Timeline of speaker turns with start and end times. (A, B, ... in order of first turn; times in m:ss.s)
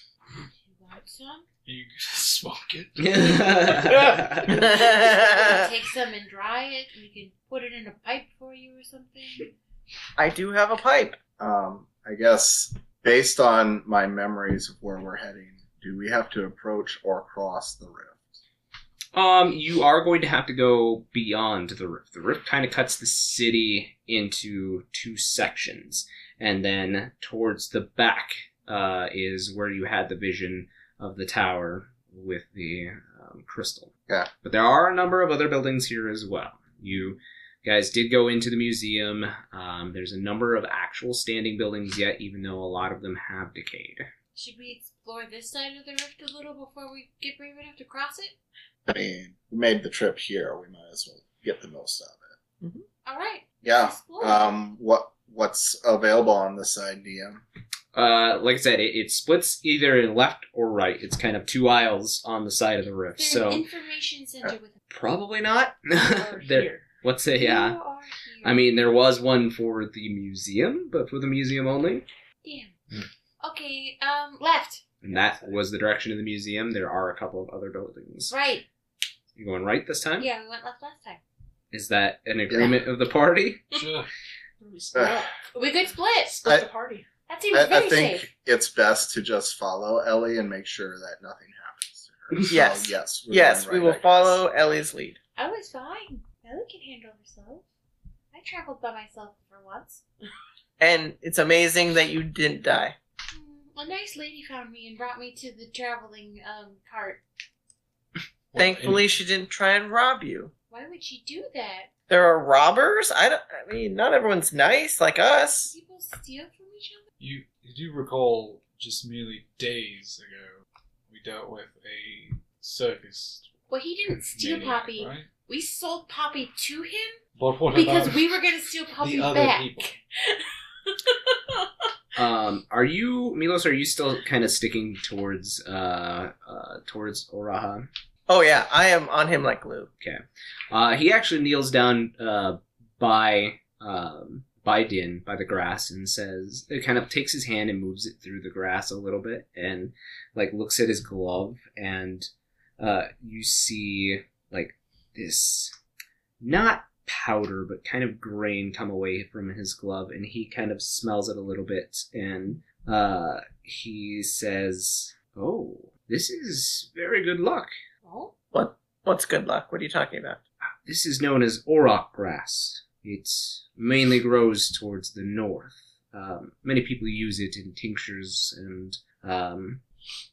0:00.6-0:01.5 A
0:01.7-0:04.6 B
0:03.0-0:04.7 C
0:04.5-0:05.7 D
0:04.6-0:09.5 A
0:10.2-0:11.2 D
0:11.4-0:18.4 E
0:19.1-0:33.9 C
0:34.4-0:44.1 C
0:44.4-0:48.4 A
0:48.9-0:52.3 E
0:53.0-0:54.5 A
0:53.6-0:57.4 E
0:57.9-1:03.6 C
1:03.2-1:04.8 A
1:04.9-1:07.8 C
1:06.0-1:06.9 F
1:07.4-1:08.7 A
1:08.4-1:12.1 C
1:12.4-1:12.7 A
1:13.4-1:14.8 A
1:15.0-1:18.3 C
1:18.3-1:18.7 A
1:19.4-1:20.3 C
1:20.2-1:21.2 A
1:21.7-1:23.6 C
1:23.7-1:24.1 B
1:24.6-1:25.3 F
1:24.9-1:25.2 E
1:25.5-1:26.4 A
1:26.3-1:27.1 F
1:27.3-1:28.3 A
1:27.5-1:34.4 E
1:32.5-1:35.2 D
1:35.4-1:37.6 A
1:38.3-1:40.0 A
1:40.8-1:43.0 D
1:43.3-1:47.2 A
1:48.5-1:49.1 B
1:48.6-1:50.5 D
1:50.7-1:51.9 A
1:52.1-1:55.7 D
1:55.7-1:57.0 A
1:57.2-2:03.5 B
2:03.7-2:07.2 A
2:04.4-2:05.3 B
2:07.4-2:08.3 B
2:07.7-2:11.7 A
2:09.0-2:10.0 B
2:12.2-2:17.9 C
2:18.3-2:19.9 D
2:20.0-2:32.3 C
2:32.8-2:35.7 C
2:36.4-2:47.7 C
2:48.0-2:48.3 A
2:48.5-2:50.4 D
2:50.9-2:59.8 C